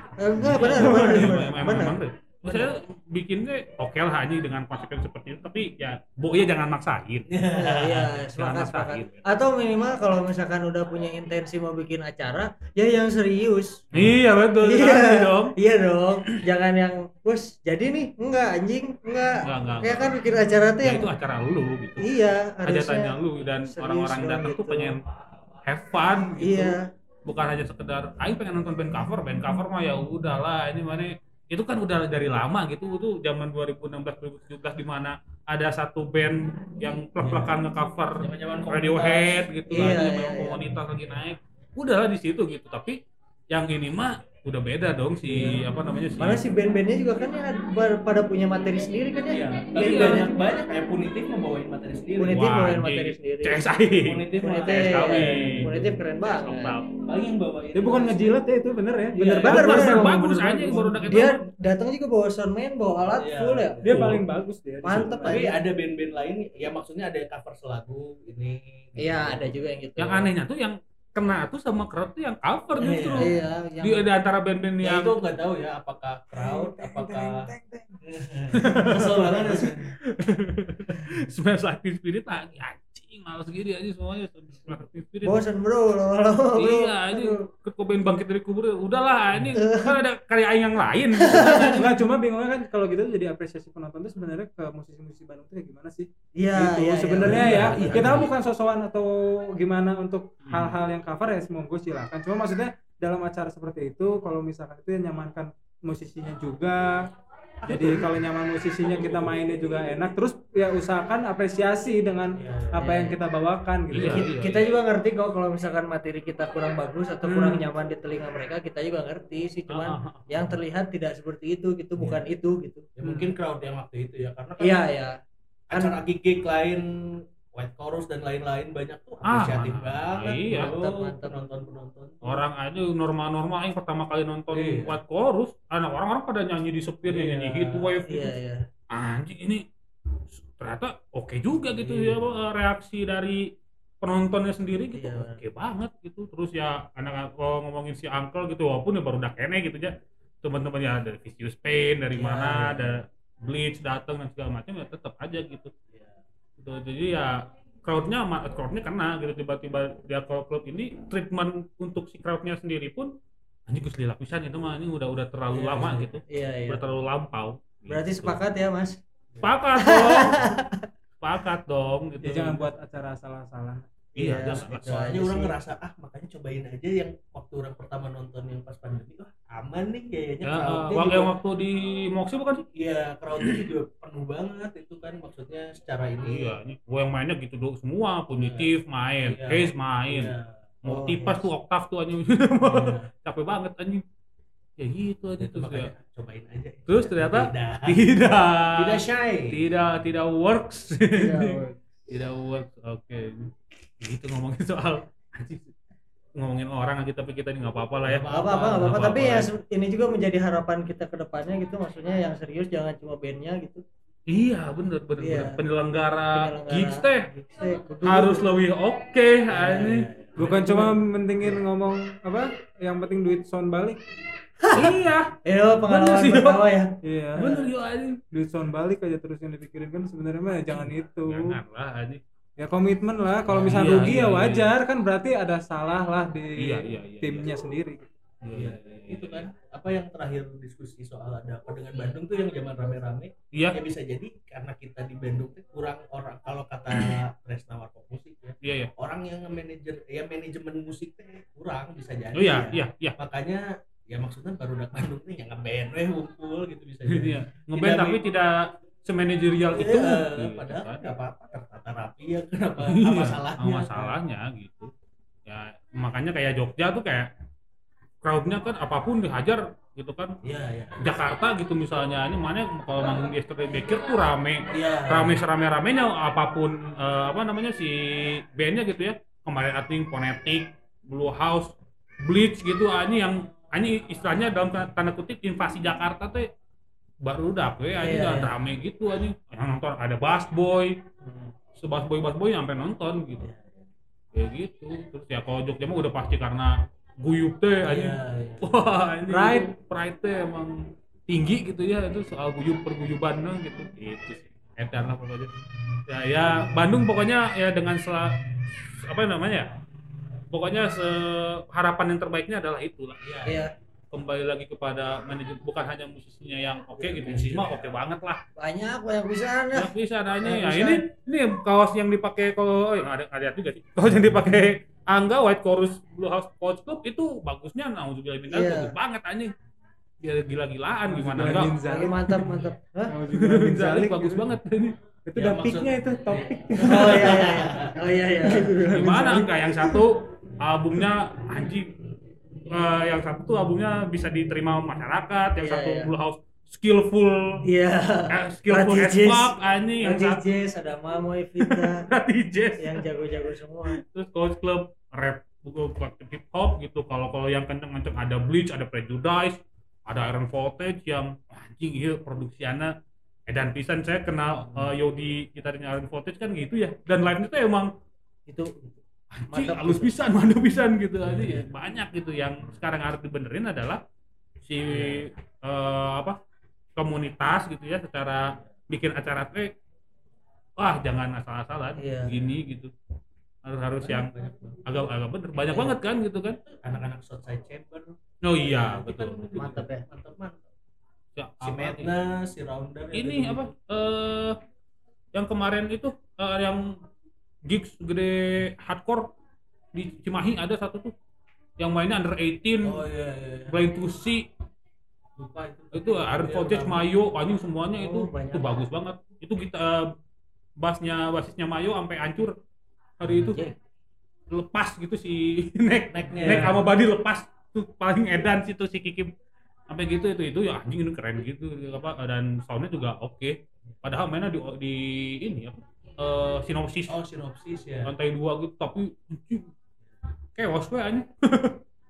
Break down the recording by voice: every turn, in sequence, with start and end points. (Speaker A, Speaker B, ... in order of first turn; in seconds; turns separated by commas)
Speaker A: 0.2-2.8, Speaker B: 0.4-7.3, Speaker C: 0.5-1.4, Speaker C: 7.3-8.2, Speaker A: 7.5-13.8, Speaker B: 8.4-9.2, Speaker B: 13.9-15.6, Speaker A: 14.6-21.1, Speaker B: 19.4-20.1, Speaker B: 20.8-22.1, Speaker A: 22.0-24.9, Speaker B: 22.6-25.0, Speaker B: 25.7-43.0, Speaker A: 26.4-26.9, Speaker C: 37.2-37.6, Speaker C: 38.2-39.5, Speaker A: 39.7-40.6, Speaker B: 43.5-46.4, Speaker A: 45.3-45.6, Speaker A: 46.2-50.3, Speaker C: 49.3-52.5, Speaker B: 49.8-50.3, Speaker A: 52.2-53.7, Speaker B: 52.3-55.7, Speaker C: 54.0-56.0, Speaker A: 54.4-56.8, Speaker B: 56.2-56.9, Speaker C: 57.1-58.4, Speaker D: 57.8-61.0, Speaker C: 59.1-59.9, Speaker A: 59.4-60.3, Speaker B: 59.5-61.4, Speaker A: 61.0-63.9, Speaker C: 63.1-64.2, Speaker D: 63.8-65.5, Speaker A: 64.8-65.6, Speaker C: 65.2-69.6, Speaker A: 69.0-70.3, Speaker B: 70.0-75.2, Speaker C: 72.8-73.3, Speaker A: 73.2-74.1, Speaker C: 74.8-77.5, Speaker A: 76.4-76.8, Speaker D: 76.4-78.0, Speaker C: 78.0-79.9, Speaker B: 78.5-79.2, Speaker A: 78.9-79.7, Speaker B: 80.0-85.4, Speaker A: 85.2-87.4, Speaker B: 86.6-91.8, Speaker A: 89.5-90.0, Speaker A: 91.2-91.9, Speaker D: 91.8-107.1, Speaker A: 96.4-98.3, Speaker C: 97.2-98.2, Speaker B: 97.8-98.3, Speaker B: 100.4-100.8, Speaker C: 107.6-108.1, Speaker D: 107.7-114.2, Speaker C: 108.8-109.8, Speaker C: 112.4-112.8, Speaker A: 112.8-113.2, Speaker B: 113.9-114.8, Speaker A: 114.0-122.8, Speaker D: 117.2-117.7, Speaker B: 119.7-120.3, Speaker C: 122.0-122.2, Speaker C: 123.0-124.8, Speaker D: 123.0-123.3, Speaker A: 124.6-125.2, Speaker C: 125.7-126.9, Speaker C: 127.5-132.4, Speaker B: 129.2-130.7, Speaker A: 130.5-131.3, Speaker B: 132.2-138.3, Speaker C: 134.5-135.0, Speaker A: 137.1-138.7, Speaker B: 138.9-139.7, Speaker B: 140.3-143.5, Speaker C: 141.8-142.2, Speaker B: 144.0-155.7, Speaker A: 144.9-145.4, Speaker A: 152.2-152.9, Speaker B: 156.6-163.1, Speaker B: 163.7-168.4, Speaker C: 165.5-166.1, Speaker A: 166.3-166.8, Speaker A: 167.9-169.0, Speaker B: 169.4-170.4, Speaker A: 169.8-170.9, Speaker B: 171.2-172.7, Speaker D: 172.2-173.9, Speaker B: 174.2-175.1, Speaker A: 174.2-175.6, Speaker C: 174.3-181.3, Speaker B: 180.5-182.7, Speaker C: 182.8-186.6, Speaker B: 186.3-190.3, Speaker C: 188.3-190.6, Speaker B: 190.8-194.0, Speaker A: 190.8-191.5, Speaker C: 192.7-193.1, Speaker B: 194.8-195.9, Speaker C: 195.4-198.1, Speaker B: 196.9-205.7, Speaker C: 198.7-199.6, Speaker A: 201.2-201.8, Speaker B: 206.4-208.3, Speaker C: 208.1-209.3, Speaker A: 208.3-213.8, Speaker B: 208.8-209.5, Speaker B: 214.3-217.3, Speaker A: 215.2-215.6, Speaker A: 216.3-218.5, Speaker B: 218.0-220.1, Speaker C: 219.5-220.9, Speaker D: 220.4-224.0, Speaker A: 220.7-220.9, Speaker A: 224.6-226.9, Speaker B: 224.7-225.3, Speaker B: 225.9-226.6, Speaker D: 227.0-227.6, Speaker B: 227.4-228.2, Speaker D: 228.3-231.6, Speaker B: 231.2-232.2, Speaker D: 232.6-238.1, Speaker B: 233.5-234.7, Speaker C: 233.5-233.8, Speaker B: 236.6-237.5, Speaker B: 238.4-239.5, Speaker C: 238.5-258.2, Speaker B: 243.5-243.8, Speaker B: 248.6-248.9, Speaker B: 252.3-253.2, Speaker B: 257.1-261.0, Speaker C: 259.7-264.2, Speaker B: 262.9-264.9, Speaker B: 265.5-267.3, Speaker B: 268.2-270.4, Speaker C: 270.4-271.1, Speaker B: 271.0-286.5, Speaker C: 274.7-275.4, Speaker B: 287.2-291.0, Speaker A: 288.0-288.5, Speaker B: 291.8-293.5, Speaker B: 294.3-305.5, Speaker C: 297.8-298.6, Speaker D: 299.3-299.7, Speaker B: 306.1-308.4, Speaker B: 308.9-309.7, Speaker B: 310.5-313.3, Speaker C: 313.2-313.7, Speaker A: 313.4-313.7, Speaker B: 314.1-318.4, Speaker C: 317.0-317.9, Speaker A: 318.6-321.0, Speaker B: 319.7-329.6, Speaker A: 328.5-328.9, Speaker B: 330.2-331.8, Speaker D: 331.1-332.5, Speaker A: 331.7-333.2, Speaker D: 333.1-334.4, Speaker B: 333.3-335.0, Speaker D: 335.3-337.4, Speaker C: 335.4-338.0, Speaker A: 336.8-338.9, Speaker D: 338.4-340.0, Speaker B: 338.7-341.9, Speaker B: 342.7-347.6, Speaker A: 345.6-346.1, Speaker A: 347.6-352.1, Speaker B: 348.3-350.4, Speaker B: 351.6-353.0, Speaker A: 352.8-354.0, Speaker B: 353.9-362.9, Speaker B: 363.5-367.9, Speaker A: 368.5-369.0, Speaker B: 369.3-374.0, Speaker A: 369.5-370.1, Speaker C: 371.3-371.6, Speaker B: 374.6-376.4, Speaker C: 374.9-375.2, Speaker B: 377.0-379.7, Speaker B: 380.8-382.9, Speaker A: 382.0-382.3, Speaker B: 383.6-384.3, Speaker C: 384.0-384.8, Speaker B: 384.9-386.6, Speaker A: 385.7-385.9, Speaker C: 386.7-390.6, Speaker B: 388.4-389.8, Speaker A: 389.6-390.0, Speaker B: 391.4-392.1, Speaker C: 391.6-393.7, Speaker B: 393.1-394.6, Speaker B: 395.3-397.0, Speaker B: 397.7-399.3, Speaker B: 399.9-401.1, Speaker B: 401.8-403.0, Speaker C: 402.8-403.9, Speaker B: 403.7-404.5, Speaker C: 405.4-407.0, Speaker B: 405.9-410.1, Speaker A: 408.0-408.8, Speaker B: 410.8-412.6, Speaker B: 413.2-413.7, Speaker B: 414.5-419.3, Speaker C: 416.1-416.8, Speaker B: 419.9-427.1, Speaker C: 427.1-428.1, Speaker B: 428.1-429.7, Speaker B: 430.6-431.8